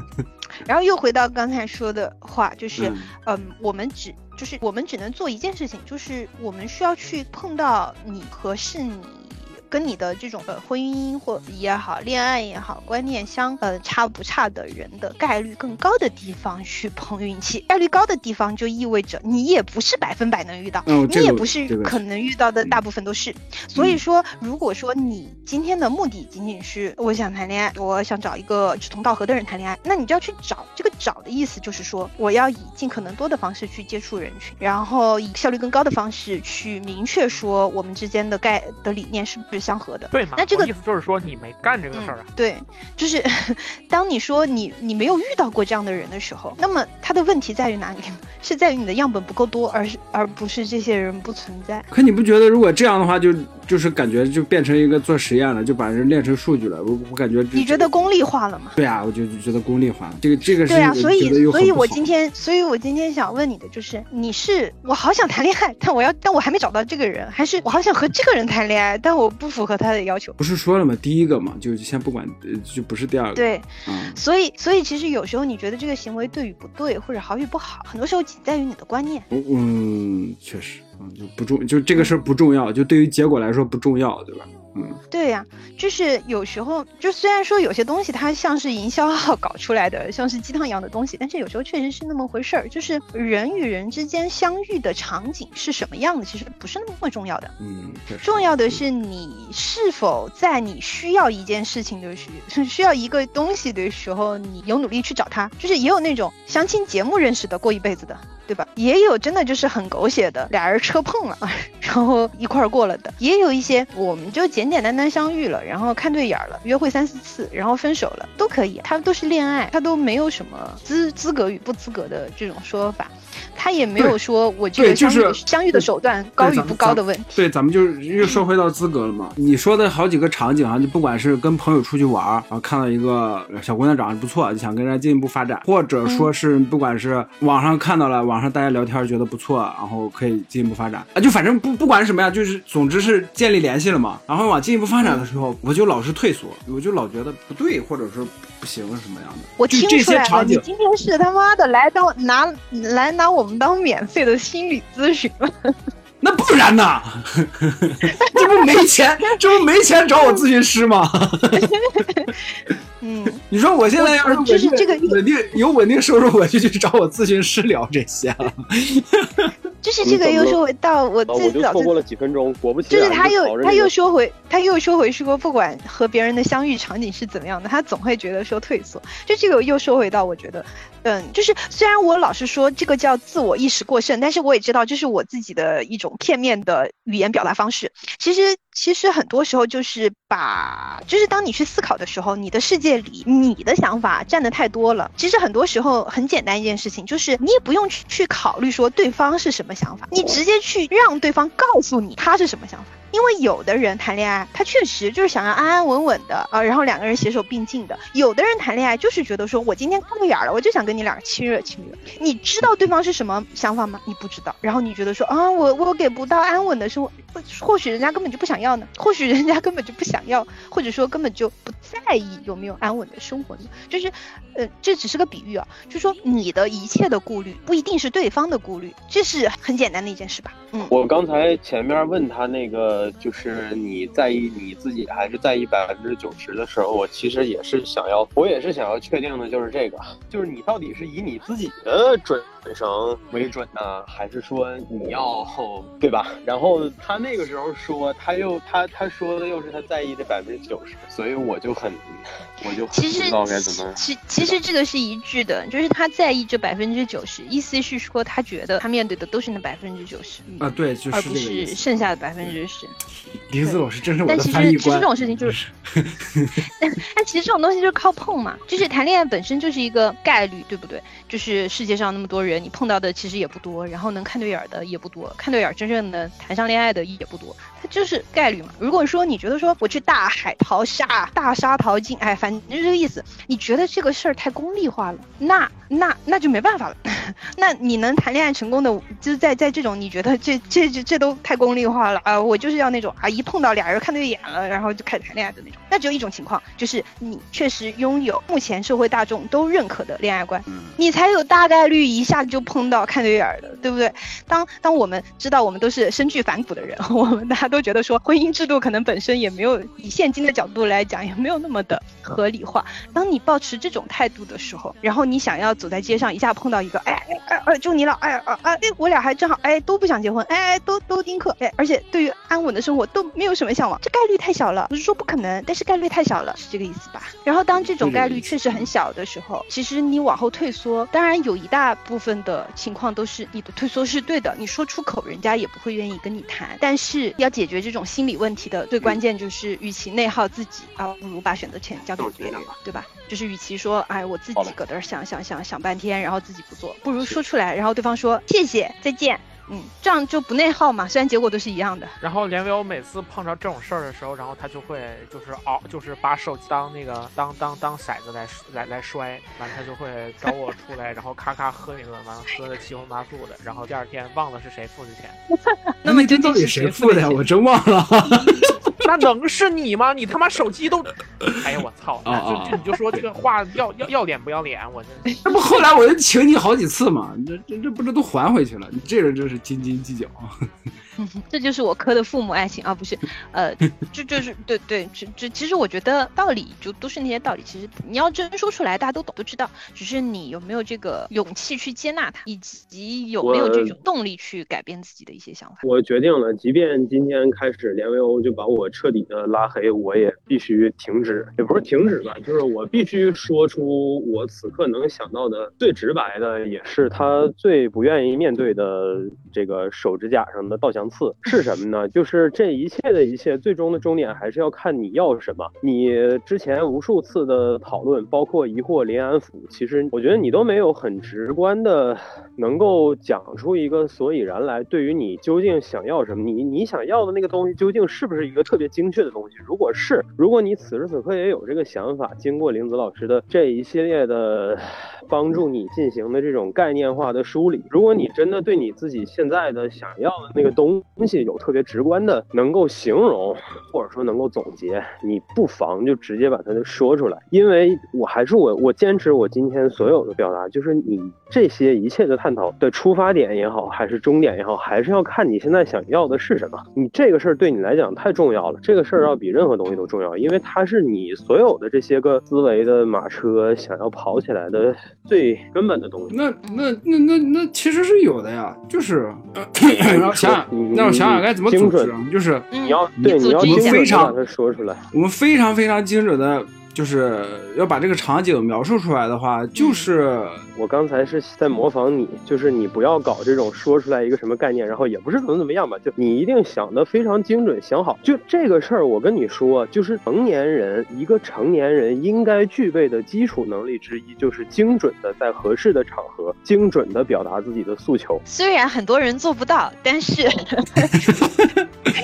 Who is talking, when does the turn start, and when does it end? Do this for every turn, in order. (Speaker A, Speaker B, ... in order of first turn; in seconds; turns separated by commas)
Speaker A: 0.6-40.7, Speaker B: 2.8-3.1, Speaker B: 20.9-22.0, Speaker C: 40.1-42.2, Speaker A: 41.9-51.9, Speaker B: 51.9-57.9, Speaker A: 57.5-58.8, Speaker B: 58.7-62.0, Speaker A: 60.6-70.4, Speaker B: 70.4-74.2, Speaker A: 73.3-79.3, Speaker B: 79.3-85.0, Speaker A: 85.1-97.5, Speaker B: 97.6-98.8, Speaker A: 98.2-127.4, Speaker B: 124.8-150.6, Speaker A: 149.6-155.7, Speaker B: 156.2-161.8, Speaker A: 158.2-158.6, Speaker A: 161.9-162.3, Speaker A: 163.0-165.2, Speaker B: 163.5-169.5, Speaker A: 169.8-172.0, Speaker D: 170.0-170.6, Speaker D: 171.3-173.9, Speaker A: 172.9-230.9, Speaker D: 230.9-254.5, Speaker A: 252.9-262.9, Speaker B: 260.6-262.6, Speaker B: 263.5-266.6, Speaker A: 263.6-265.5, Speaker A: 266.8-352.1, Speaker B: 300.7-301.0, Speaker B: 327.8-328.9, Speaker D: 342.2-342.7, Speaker C: 352.2-365.4, Speaker A: 365.7-367.4, Speaker B: 366.0-368.9, Speaker C: 369.0-375.4, Speaker B: 372.2-373.2, Speaker B: 375.4-380.6, Speaker A: 381.2-395.8, Speaker D: 393.4-393.9, Speaker D: 395.8-466.3, Speaker B: 466.3-472.7, Speaker D: 470.1-472.1, Speaker A: 472.7-474.2, Speaker D: 472.8-475.0, Speaker B: 473.2-474.4, Speaker B: 475.1-480.6, Speaker A: 479.8-480.1, Speaker D: 480.8-498.4, Speaker A: 498.5-501.2, Speaker B: 501.1-501.8